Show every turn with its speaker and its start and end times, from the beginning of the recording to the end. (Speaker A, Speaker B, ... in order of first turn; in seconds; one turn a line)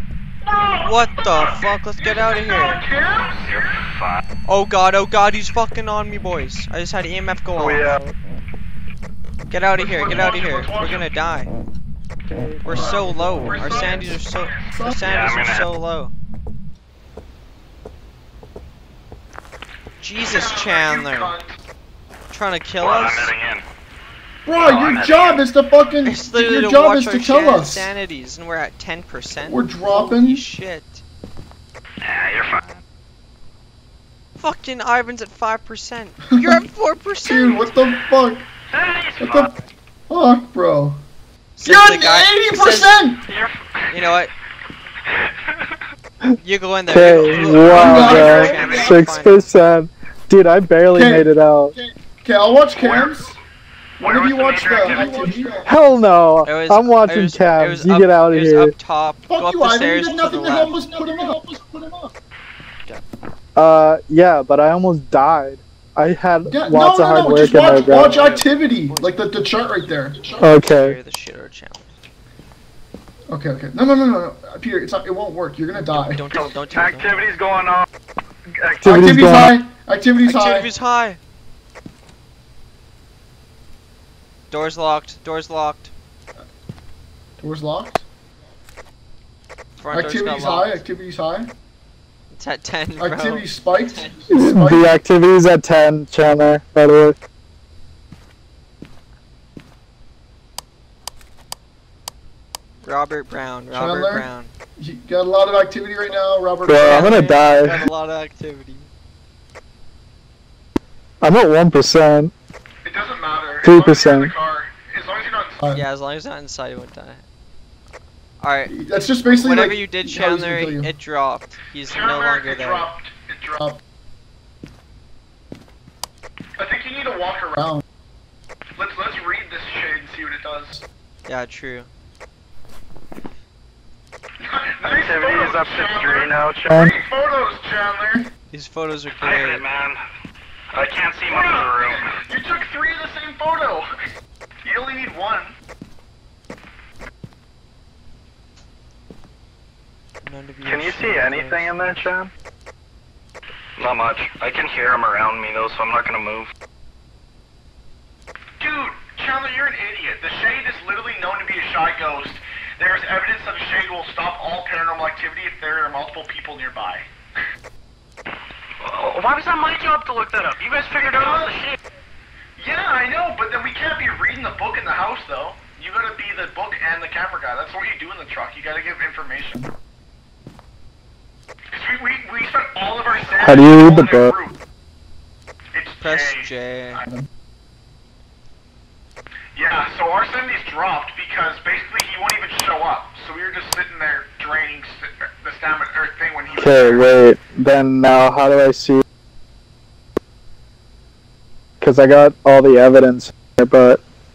Speaker A: 0.4-3.7
Speaker B: 0.8-2.8
Speaker C: 3.5-4.2
Speaker B: 4.5-8.0
Speaker D: 7.6-8.2
Speaker B: 9.5-11.5
Speaker A: 9.8-11.1
Speaker D: 12.3-13.6
Speaker B: 12.7-16.1
Speaker A: 12.7-14.7
Speaker E: 12.8-14.1
Speaker E: 14.7-15.0
Speaker C: 15.1-15.7
Speaker B: 20.0-21.4
Speaker A: 20.2-21.6
Speaker B: 22.3-23.3
Speaker C: 22.8-23.6
Speaker E: 24.5-27.9
Speaker C: 24.6-25.4
Speaker B: 26.1-31.0
Speaker E: 29.5-30.4
Speaker C: 32.0-32.7
Speaker B: 34.4-37.7
Speaker E: 36.3-36.6
Speaker E: 37.2-38.5
Speaker C: 38.7-39.6
Speaker E: 39.2-39.5
Speaker E: 40.1-41.0
Speaker B: 41.6-43.0
Speaker E: 41.6-43.2
Speaker C: 43.3-44.1
Speaker B: 43.9-44.3
Speaker C: 45.1-45.7
Speaker B: 46.4-49.5
Speaker D: 46.9-51.8
Speaker C: 47.3-49.0
Speaker E: 47.7-48.6
Speaker A: 47.9-49.1
Speaker E: 50.9-51.3
Speaker E: 52.2-53.3
Speaker C: 52.8-53.2
Speaker C: 54.0-55.4
Speaker E: 54.0-55.6
Speaker A: 54.1-55.7
Speaker B: 54.9-55.4
Speaker D: 55.7-58.7
Speaker B: 56.5-60.8
Speaker E: 59.3-62.1
Speaker A: 59.5-61.4
Speaker D: 63.6-68.3
Speaker E: 66.5-70.4
Speaker B: 67.9-71.9
Speaker D: 70.4-71.0
Speaker E: 73.3-76.2
Speaker B: 75.7-77.3
Speaker D: 76.3-77.9
Speaker D: 78.6-79.5
Speaker E: 78.8-80.7
Speaker B: 80.2-81.2
Speaker B: 84.5-85.9
Speaker E: 87.4-88.0
Speaker B: 89.8-90.8
Speaker E: 89.9-91.5
Speaker B: 92.3-94.3
Speaker E: 93.0-94.9
Speaker D: 94.3-97.2
Speaker B: 102.8-104.5
Speaker E: 103.7-107.3
Speaker D: 106.7-107.8
Speaker B: 106.8-108.9
Speaker D: 111.2-112.3
Speaker A: 112.8-115.6
Speaker D: 113.6-114.3
Speaker B: 115.7-117.2
Speaker B: 118.4-122.9
Speaker E: 118.7-120.9
Speaker A: 121.9-123.8
Speaker A: 126.6-127.8
Speaker A: 128.8-130.8
Speaker B: 131.3-131.9
Speaker A: 134.4-138.3
Speaker D: 134.8-136.9
Speaker B: 138.5-139.7
Speaker C: 139.2-140.0
Speaker C: 140.7-142.1
Speaker A: 141.3-143.9
Speaker A: 144.6-145.5
Speaker B: 150.2-152.1
Speaker D: 150.7-152.3
Speaker C: 153.8-156.5
Speaker A: 158.6-167.1
Speaker C: 168.8-171.8
Speaker A: 170.9-171.6
Speaker A: 172.6-179.7
Speaker A: 181.7-184.6
Speaker D: 183.4-184.3
Speaker A: 185.7-186.5
Speaker B: 186.0-187.0
Speaker E: 187.0-187.3
Speaker A: 189.6-197.1
Speaker D: 196.6-199.0
Speaker D: 201.8-204.0